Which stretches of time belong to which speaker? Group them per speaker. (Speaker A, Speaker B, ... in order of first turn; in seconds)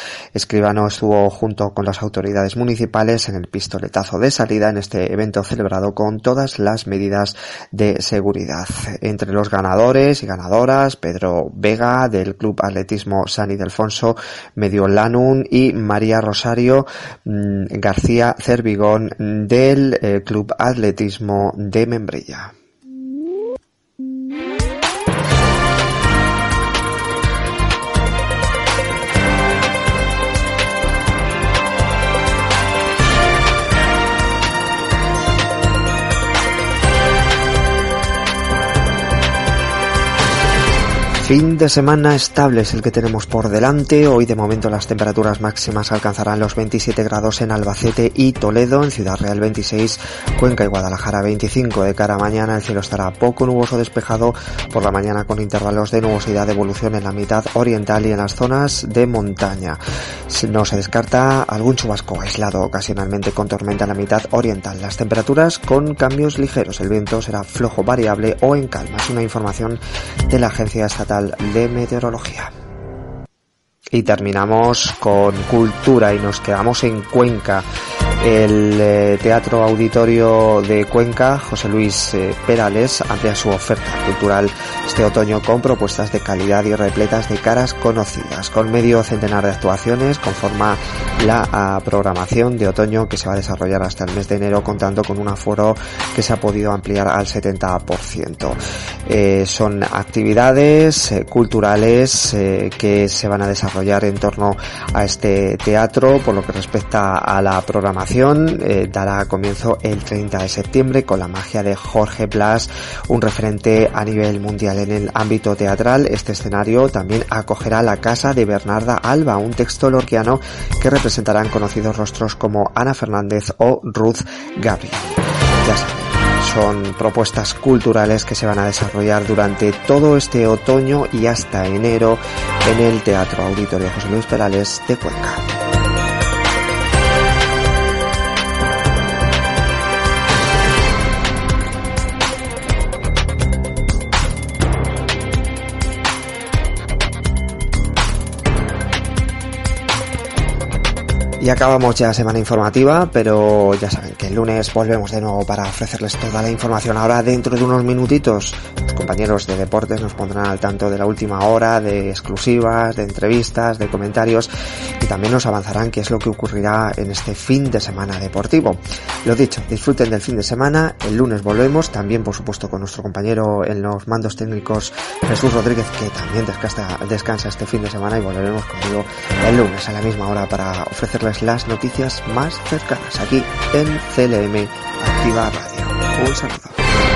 Speaker A: 0.3-22.5, 41.2-72.5, 73.9-77.7, 78.2-135.4, 151.4-186.8